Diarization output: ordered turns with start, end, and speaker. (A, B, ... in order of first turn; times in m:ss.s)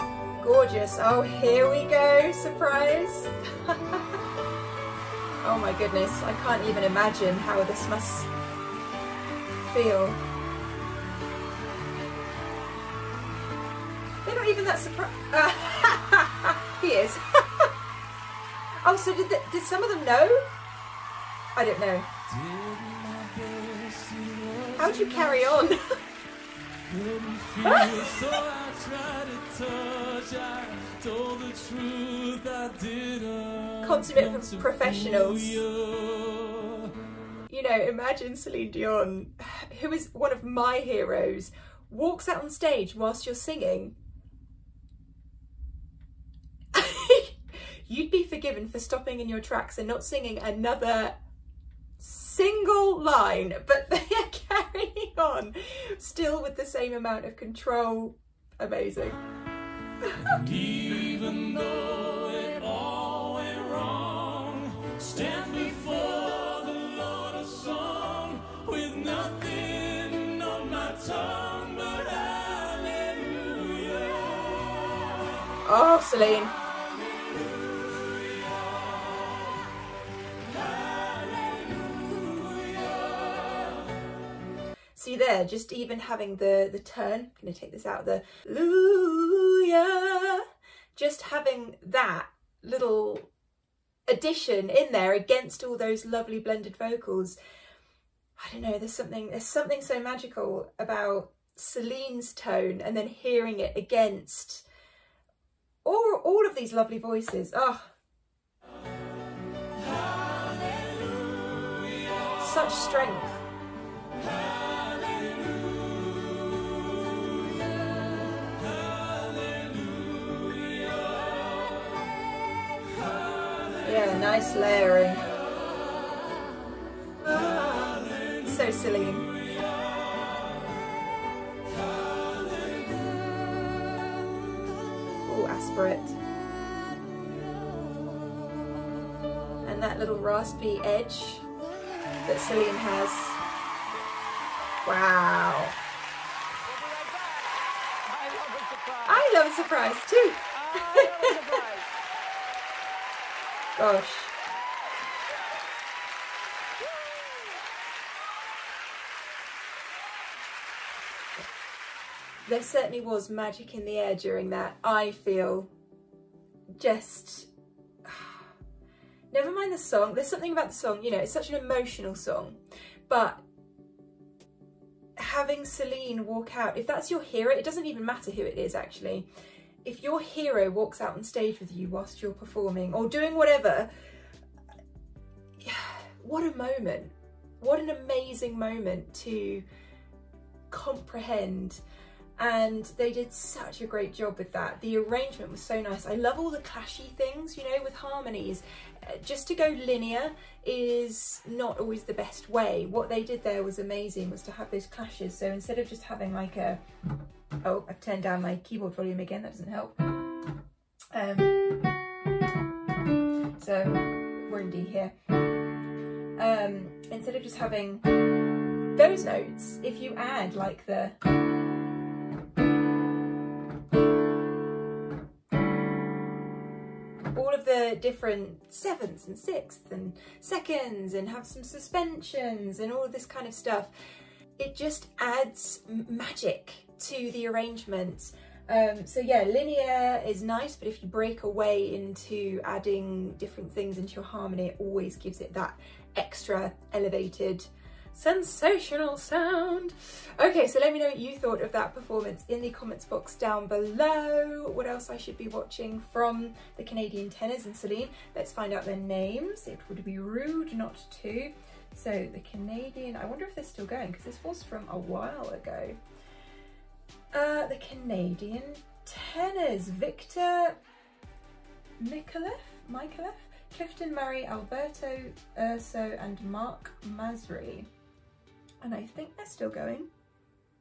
0:00.4-0:04.2 A
0:05.4-0:08.3 A
0:09.6-0:10.2 A
0:14.2-0:17.7 A
0:18.8-0:20.4 A
0:21.6-0:22.1 A
0:22.3-0:25.7 B
0:24.8-0:25.8 A
0:26.9-0:36.9 B
0:27.6-0:28.3 A
0:33.8-0:35.6 A
0:37.5-0:44.0 A
0:46.7-0:51.2 A
0:52.0-0:59.2 A
1:00.3-1:14.8 B
1:15.6-1:16.6 A
1:21.1-1:23.7 B
1:25.0-1:30.4 A
1:31.0-1:33.3 A
1:34.1-1:37.4 A
1:38.4-1:44.7 A
1:45.8-1:47.9 A
1:52.4-1:53.4 A
1:54.9-1:55.6 B
1:59.2-2:01.4 B
2:03.8-2:05.3 A
2:07.2-2:09.3 A
2:15.2-2:16.2 A
2:19.6-2:21.4 A
2:22.2-2:23.4 A
2:24.8-2:25.8 A
2:26.7-2:29.3 C
2:29.1-2:31.4 A
2:30.5-2:31.9 C
2:33.8-2:34.3 A
2:42.4-2:45.7 A
2:46.8-2:47.5 A
2:48.0-2:48.4 A
2:49.3-2:53.4 A
2:55.2-2:59.3 A
2:59.8-3:03.9 A
3:05.6-3:09.7 A
3:10.7-3:11.8 A
3:12.4-3:26.8 A
3:27.6-3:30.0 A
3:31.1-3:31.9 A
3:33.6-3:35.2 A
3:36.4-3:38.1 A
3:38.9-3:41.2 A
3:47.3-3:53.9 A
3:54.6-4:26.0 A
4:27.3-4:30.8 A
4:32.0-4:37.9 A
4:38.8-4:40.1 A